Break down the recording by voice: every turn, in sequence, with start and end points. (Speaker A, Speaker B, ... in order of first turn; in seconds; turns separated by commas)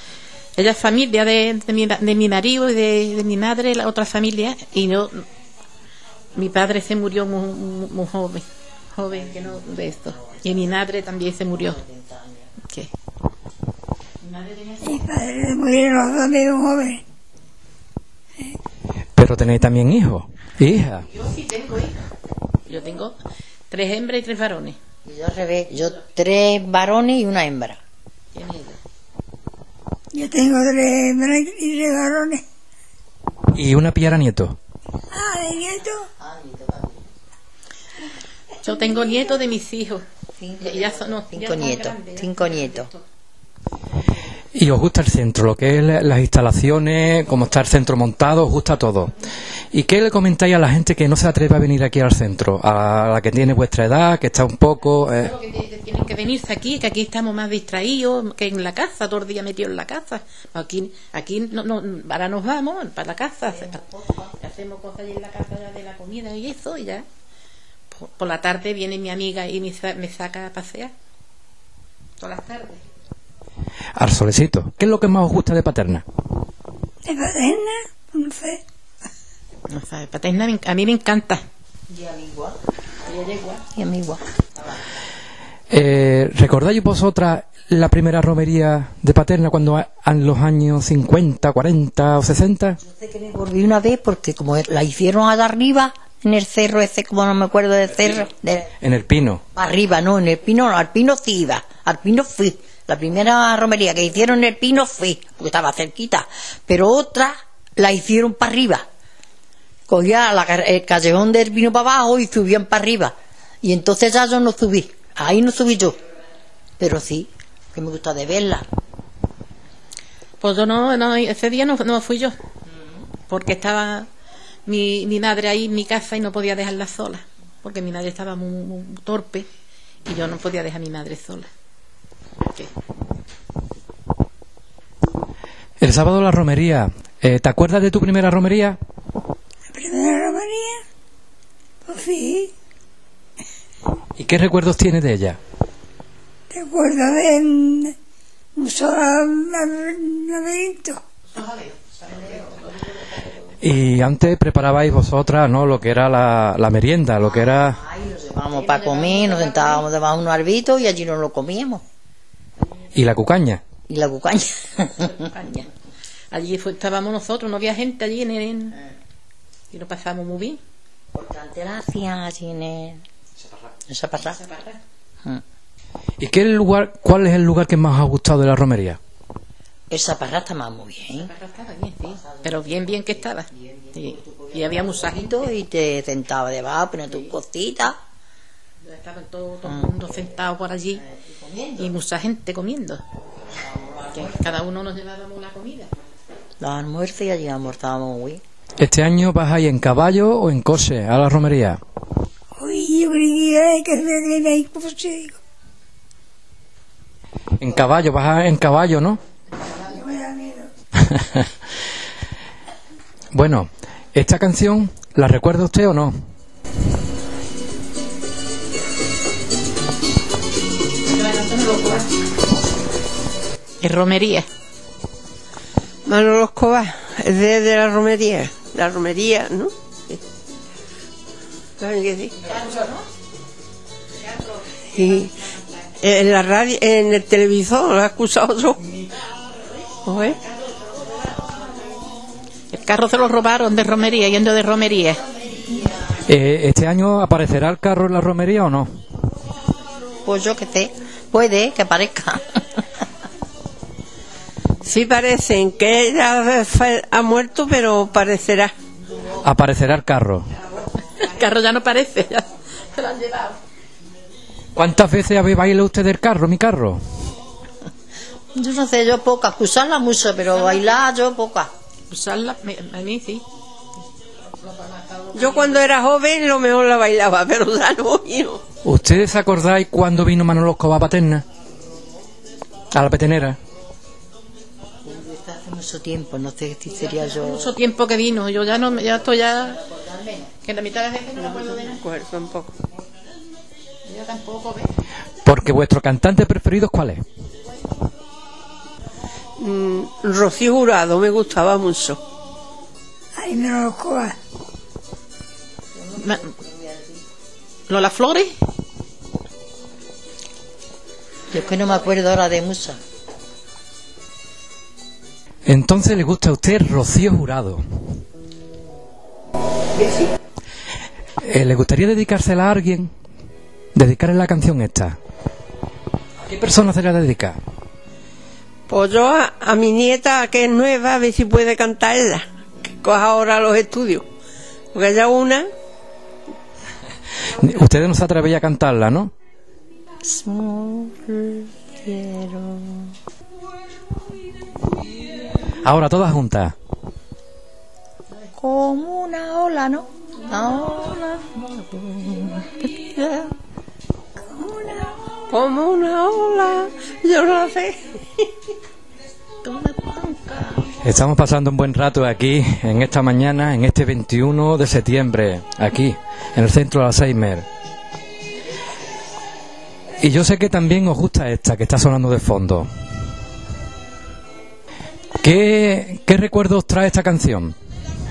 Speaker A: 0.6-5.2, Speaker A: 6.3-11.8, Speaker B: 9.1-10.5, Speaker B: 11.6-12.5, Speaker A: 14.2-15.0, Speaker C: 14.8-17.0, Speaker D: 19.2-21.1, Speaker A: 21.1-22.0, Speaker A: 22.7-23.2, Speaker A: 23.7-24.8, Speaker B: 25.1-27.8, Speaker A: 28.3-28.8, Speaker C: 30.1-32.4, Speaker D: 33.5-34.6, Speaker C: 35.1-36.0, Speaker B: 36.2-37.1, Speaker A: 38.6-40.0, Speaker B: 40.4-42.9, Speaker A: 40.6-43.0, Speaker D: 44.6-49.1, Speaker D: 49.7-55.3, Speaker A: 55.2-63.8, Speaker B: 63.5-64.3, Speaker A: 64.4-67.1, Speaker A: 67.9-70.9, Speaker A: 72.2-72.8, Speaker D: 74.0-76.0, Speaker C: 77.0-78.6, Speaker A: 79.7-81.4, Speaker B: 81.9-82.6, Speaker A: 83.1-83.6, Speaker B: 83.6-84.8, Speaker D: 85.7-92.8, Speaker B: 92.8-98.7, Speaker D: 98.8-99.4, Speaker B: 99.6-108.9, Speaker B: 109.9-116.0, Speaker B: 116.8-118.7, Speaker A: 120.4-122.3, Speaker A: 123.3-124.1, Speaker A: 124.7-129.5, Speaker A: 130.1-131.5, Speaker A: 132.4-132.7, Speaker D: 135.8-138.8, Speaker C: 139.7-140.8, Speaker C: 141.8-142.5, Speaker D: 144.2-145.4, Speaker C: 146.5-147.9, Speaker C: 148.6-151.0, Speaker A: 151.3-152.9, Speaker B: 152.1-152.6, Speaker D: 153.6-157.8, Speaker B: 157.2-161.8, Speaker A: 158.5-159.9, Speaker D: 162.9-163.6, Speaker B: 163.9-165.3, Speaker A: 165.0-165.7, Speaker A: 166.3-168.8, Speaker A: 169.7-170.6, Speaker B: 171.1-173.0, Speaker B: 173.9-174.4, Speaker A: 174.3-174.8, Speaker D: 176.2-179.0, Speaker B: 179.9-181.3, Speaker A: 181.2-185.5, Speaker B: 182.1-188.0, Speaker A: 188.8-191.0, Speaker B: 190.9-191.9, Speaker A: 191.8-193.0, Speaker B: 193.5-194.6, Speaker A: 194.1-195.9, Speaker B: 196.6-198.4, Speaker D: 198.8-201.8, Speaker C: 202.6-205.4, Speaker D: 207.6-209.2, Speaker C: 209.9-210.7, Speaker D: 211.1-211.4, Speaker D: 213.3-216.2, Speaker A: 221.1-222.1, Speaker A: 223.8-224.5, Speaker E: 226.1-230.2, Speaker E: 231.8-232.3, Speaker A: 232.5-233.0, Speaker E: 234.9-235.3, Speaker E: 236.0-238.8, Speaker E: 240.1-240.4, Speaker A: 242.7-245.2, Speaker B: 245.4-246.0, Speaker D: 246.3-248.9, Speaker B: 250.2-252.8, Speaker E: 254.8-258.7, Speaker D: 259.4-260.5, Speaker A: 261.1-263.6, Speaker D: 264.8-267.0, Speaker B: 268.6-271.7, Speaker A: 272.1-273.4, Speaker A: 274.6-275.9, Speaker E: 275.4-278.6, Speaker D: 278.8-281.4, Speaker D: 282.9-283.6, Speaker B: 285.0-287.7, Speaker A: 286.9-289.8, Speaker B: 289.1-290.5, Speaker A: 290.6-292.0, Speaker E: 291.4-292.7, Speaker A: 294.1-294.9, Speaker D: 295.4-297.2, Speaker E: 299.6-302.2, Speaker C: 303.4-304.4, Speaker B: 305.9-307.2, Speaker A: 306.2-306.5, Speaker A: 307.9-308.5, Speaker B: 311.5-313.0, Speaker D: 315.7-317.8, Speaker E: 319.9-320.3, Speaker D: 321.4-323.1, Speaker D: 323.9-325.2, Speaker D: 326.4-327.6, Speaker E: 328.9-334.2, Speaker E: 334.9-335.7, Speaker D: 337.6-339.3, Speaker B: 340.2-343.1, Speaker D: 345.8-346.8, Speaker B: 348.5-353.5, Speaker E: 355.5-358.5, Speaker A: 359.6-361.0, Speaker D: 361.0-367.6, Speaker D: 370.2-372.9, Speaker D: 375.4-377.8